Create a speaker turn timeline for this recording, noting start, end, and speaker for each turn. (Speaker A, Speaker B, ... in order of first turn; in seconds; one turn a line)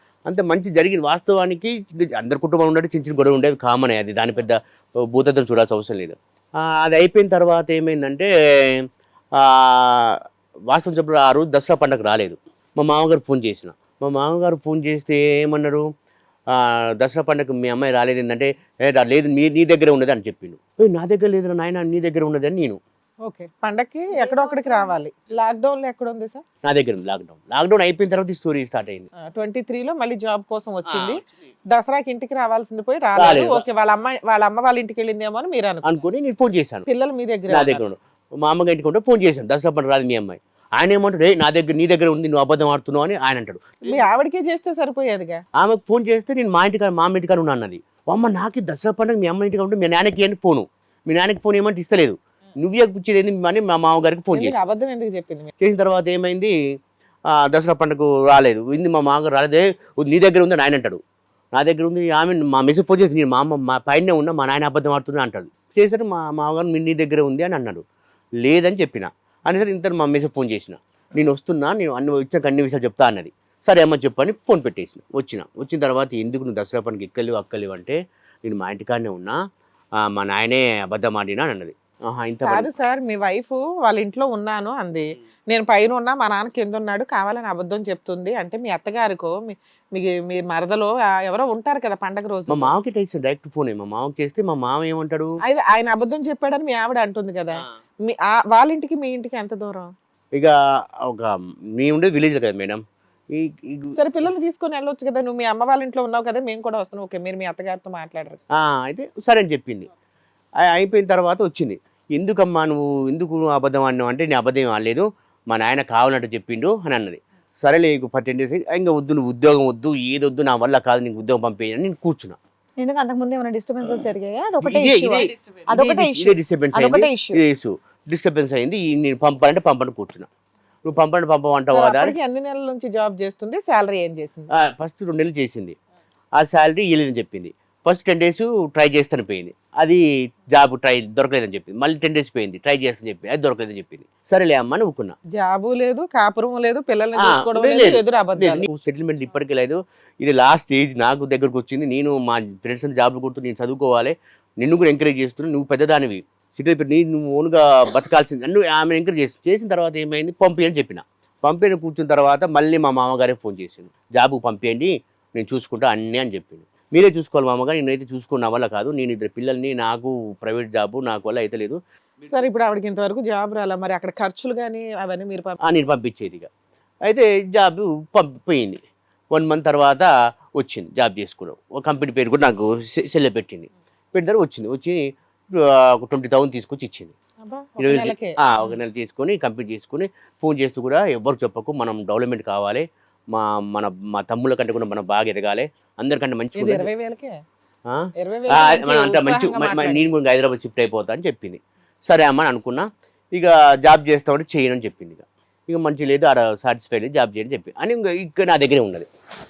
Speaker A: 0.3-4.5
Speaker A: 5.1-8.8
Speaker A: 9.4-10.1
Speaker A: 10.7-15.8
Speaker A: 16.6-22.8
Speaker B: 23.2-26.4
Speaker C: 24.2-24.8
Speaker A: 26.6-29.1
Speaker B: 29.3-36.0
Speaker A: 33.2-33.6
Speaker A: 35.8-36.9
Speaker B: 36.9-37.8
Speaker A: 37.5-44.0
Speaker B: 43.8-45.4
Speaker A: 45.6-54.6
Speaker B: 54.3-55.5
Speaker A: 55.6-56.5
Speaker A: 57.3-61.0
Speaker A: 61.5-67.8
Speaker A: 68.4-79.4
Speaker A: 80.1-82.7
Speaker B: 82.5-92.7
Speaker A: 92.5-95.3
Speaker B: 95.5-99.9
Speaker A: 101.1-102.8
Speaker A: 103.3-104.0
Speaker B: 104.0-108.4
Speaker A: 108.6-109.9
Speaker A: 110.6-122.4
Speaker C: 122.8-127.4
Speaker A: 124.6-130.3
Speaker A: 130.8-132.2
Speaker B: 131.7-134.5
Speaker A: 134.5-135.8
Speaker A: 136.4-145.2
Speaker B: 145.3-148.6
Speaker A: 147.2-171.8
Speaker B: 172.3-175.6
Speaker A: 175.6-176.5
Speaker A: 177.1-178.8
Speaker A: 179.3-185.0
Speaker A: 185.8-187.1
Speaker B: 187.4-188.4
Speaker A: 187.8-196.9
Speaker B: 196.6-197.4
Speaker A: 197.9-209.1
Speaker B: 198.2-200.0